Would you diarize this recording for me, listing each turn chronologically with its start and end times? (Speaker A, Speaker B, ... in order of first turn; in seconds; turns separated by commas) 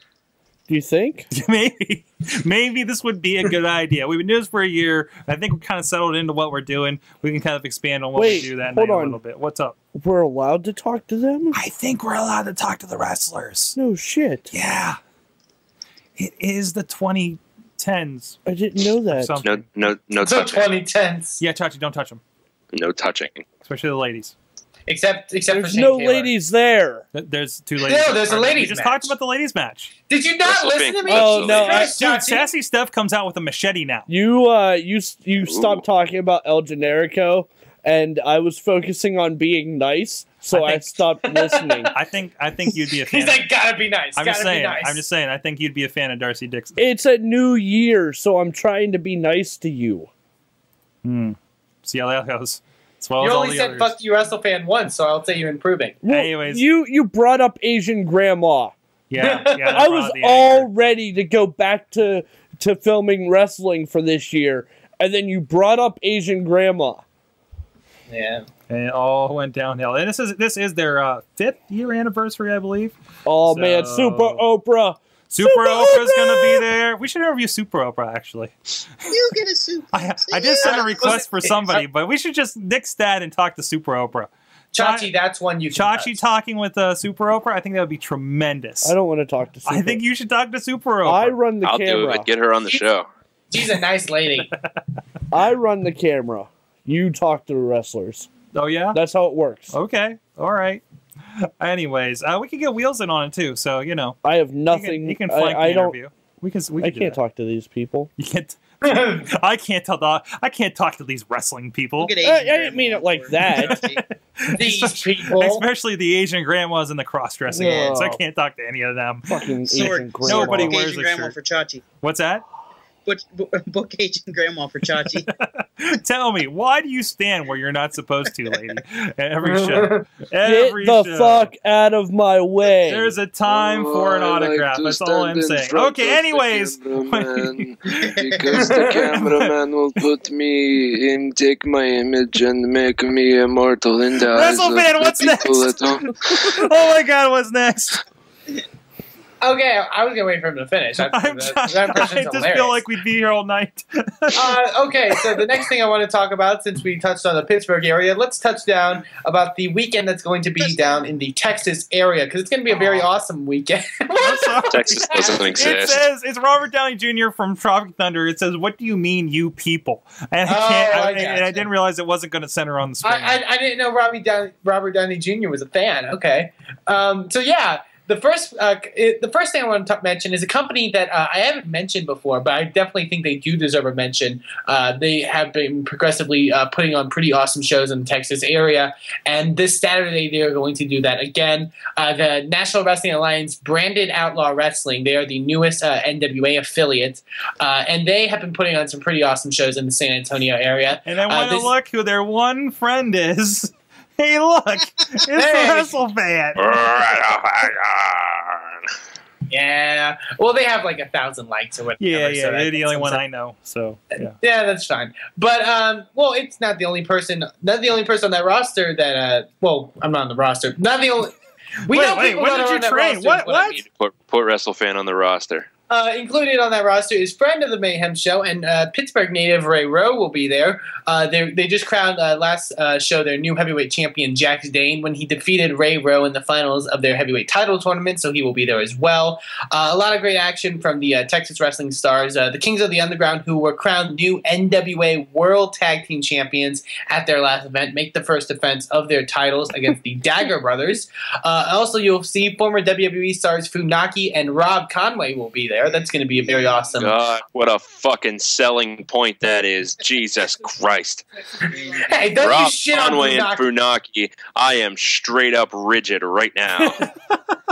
Speaker A: 0.7-1.3, Speaker B: 1.3-9.8, Speaker A: 8.1-9.2, Speaker A: 9.9-11.6, Speaker B: 11.5-13.8, Speaker A: 13.8-14.5, Speaker B: 14.5-15.0, Speaker B: 16.2-18.4, Speaker A: 18.4-19.4, Speaker B: 19.2-19.6, Speaker C: 19.4-20.7, Speaker D: 20.2-21.4, Speaker B: 21.4-22.2, Speaker C: 22.7-23.4, Speaker B: 23.6-24.3, Speaker D: 24.9-26.3, Speaker A: 25.5-27.1, Speaker B: 27.1-29.9, Speaker D: 27.8-29.1, Speaker D: 30.1-32.5, Speaker C: 30.4-31.8, Speaker A: 31.1-32.0, Speaker B: 31.6-34.1, Speaker A: 34.1-41.9, Speaker C: 35.5-35.8, Speaker B: 40.5-41.0, Speaker B: 41.9-43.4, Speaker D: 43.1-45.0, Speaker B: 44.1-46.8, Speaker A: 46.8-50.1, Speaker B: 51.0-53.9, Speaker D: 53.2-56.0, Speaker A: 56.0-58.7, Speaker B: 56.1-56.6, Speaker B: 59.1-60.7, Speaker D: 59.2-59.8, Speaker A: 59.7-67.0, Speaker D: 68.1-68.5, Speaker B: 68.7-73.0, Speaker A: 73.2-76.6, Speaker B: 73.5-74.4, Speaker B: 75.3-78.5, Speaker E: 79.1-81.2, Speaker B: 79.9-85.1, Speaker D: 80.6-81.8, Speaker D: 84.7-86.2, Speaker B: 85.7-88.9, Speaker A: 88.8-90.0, Speaker B: 89.7-91.4, Speaker A: 91.0-92.3, Speaker C: 91.6-93.1, Speaker D: 93.5-94.5, Speaker A: 95.3-98.3, Speaker B: 98.5-99.0, Speaker A: 98.9-99.7, Speaker B: 99.7-100.8, Speaker B: 101.4-107.2, Speaker A: 104.2-106.0, Speaker A: 106.8-108.1, Speaker B: 108.2-112.2, Speaker D: 108.8-109.2, Speaker E: 112.0-114.0, Speaker A: 112.2-113.8, Speaker B: 113.5-121.3, Speaker D: 114.6-115.7, Speaker A: 117.5-118.2, Speaker A: 119.3-120.8, Speaker E: 119.7-121.8, Speaker B: 122.0-122.4, Speaker E: 123.0-125.3, Speaker B: 125.3-131.5, Speaker D: 129.4-130.0, Speaker A: 130.4-133.2, Speaker B: 132.8-138.1, Speaker C: 133.5-146.5, Speaker B: 139.1-139.5, Speaker B: 144.3-148.0, Speaker D: 149.4-152.8, Speaker B: 151.0-154.5, Speaker D: 154.3-165.8, Speaker E: 160.6-161.0, Speaker B: 162.7-163.2, Speaker B: 164.2-173.4, Speaker C: 164.7-166.0, Speaker D: 170.5-171.7, Speaker D: 173.0-201.7, Speaker B: 201.0-206.7, Speaker D: 205.3-205.9, Speaker C: 206.6-208.7, Speaker D: 209.5-213.2, Speaker B: 212.0-214.3, Speaker D: 214.4-221.3, Speaker D: 221.9-223.8, Speaker B: 221.9-223.8, Speaker C: 223.8-225.7, Speaker D: 225.9-257.2, Speaker E: 256.4-257.0, Speaker C: 257.0-261.2, Speaker D: 261.6-263.6, Speaker E: 261.7-262.3, Speaker C: 262.4-267.1